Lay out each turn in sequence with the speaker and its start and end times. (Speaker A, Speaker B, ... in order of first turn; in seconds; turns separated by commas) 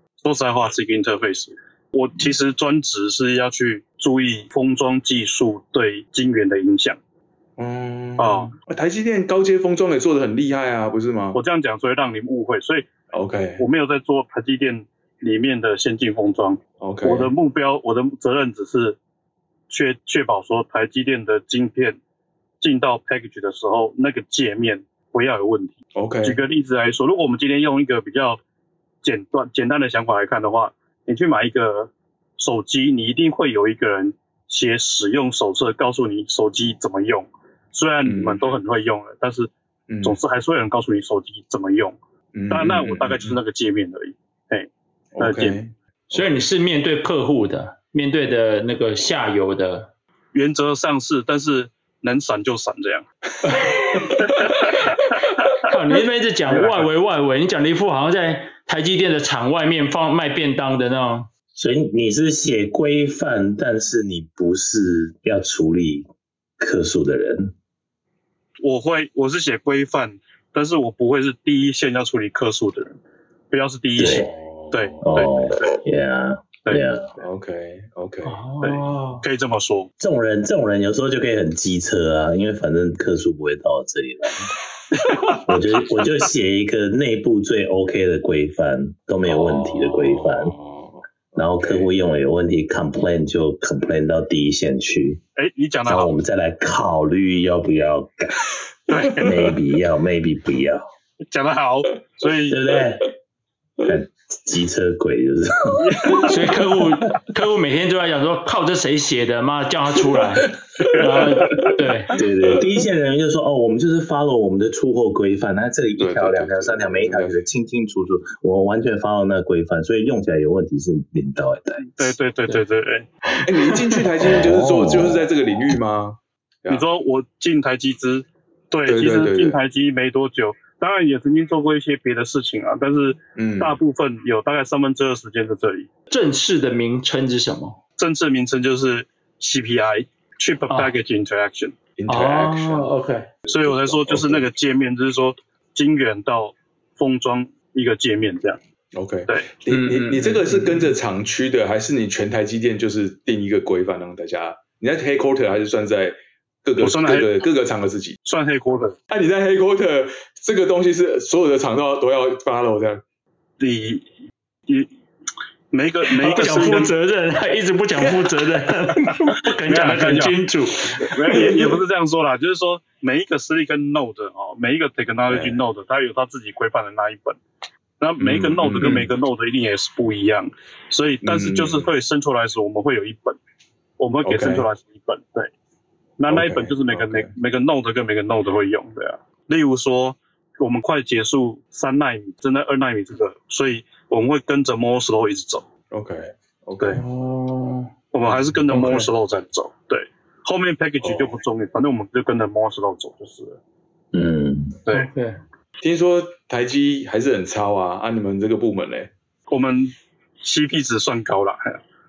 Speaker A: 0.2-7.0, Speaker B: 7.6-11.4, Speaker A: 8.2-8.5, Speaker A: 11.3-12.9, Speaker B: 13.1-13.6, Speaker A: 13.6-19.0, Speaker B: 16.8-17.3, Speaker A: 19.7-22.0, Speaker A: 22.6-28.4, Speaker B: 26.0-26.4, Speaker A: 29.0-39.5, Speaker B: 38.0-38.4, Speaker B: 39.9-40.2, Speaker A: 40.0-42.0, Speaker B: 42.3-43.4, Speaker A: 42.5-44.7, Speaker B: 45.1-46.3, Speaker A: 45.2-45.6, Speaker C: 46.1-49.9, Speaker A: 50.3-53.1, Speaker C: 53.5-53.9, Speaker B: 53.9-54.4, Speaker A: 54.2-54.8, Speaker C: 55.6-61.3, Speaker A: 56.5-56.9, Speaker D: 61.5-66.1, Speaker D: 66.6-67.5, Speaker A: 68.6-73.0, Speaker A: 73.5-75.8, Speaker D: 74.0-74.3, Speaker B: 74.0-75.3, Speaker D: 75.0-77.1, Speaker B: 77.2-78.4, Speaker C: 78.2-79.2, Speaker A: 78.6-79.9, Speaker D: 80.0-84.5, Speaker D: 85.3-90.5, Speaker B: 89.2-91.9, Speaker D: 91.4-95.2, Speaker A: 95.4-96.1, Speaker D: 95.9-98.4, Speaker A: 98.9-99.5, Speaker D: 99.2-100.9, Speaker A: 101.3-102.8, Speaker D: 102.5-103.1, Speaker D: 103.8-105.8, Speaker A: 105.8-106.5, Speaker C: 106.3-112.1, Speaker A: 110.8-111.7, Speaker D: 112.1-122.1, Speaker B: 116.0-117.5, Speaker A: 121.9-123.1, Speaker B: 123.4-126.8, Speaker C: 123.5-124.0, Speaker D: 124.2-125.7, Speaker A: 126.7-135.9, Speaker B: 128.9-129.6, Speaker B: 133.4-133.8, Speaker C: 136.1-137.8, Speaker A: 138.0-141.8, Speaker B: 142.0-142.9, Speaker C: 142.1-143.3, Speaker B: 143.4-144.5, Speaker A: 143.5-148.6, Speaker B: 148.9-158.2, Speaker C: 149.7-150.9, Speaker A: 156.8-157.4, Speaker A: 158.2-159.0, Speaker B: 159.1-163.0, Speaker A: 163.6-164.1, Speaker A: 165.7-166.9, Speaker C: 166.1-171.8, Speaker A: 169.7-170.4, Speaker A: 171.0-177.4, Speaker B: 175.3-175.6, Speaker A: 178.0-183.4, Speaker B: 178.2-179.1, Speaker B: 181.2-181.9, Speaker A: 184.0-185.5, Speaker B: 184.2-184.7, Speaker A: 186.2-195.7, Speaker B: 186.3-187.3, Speaker B: 195.9-197.1, Speaker C: 196.9-197.9, Speaker A: 198.1-203.6, Speaker B: 198.2-198.6, Speaker C: 198.7-199.1, Speaker B: 201.0-201.4, Speaker D: 204.1-204.8, Speaker C: 204.9-205.4, Speaker B: 205.8-209.1, Speaker A: 209.5-211.8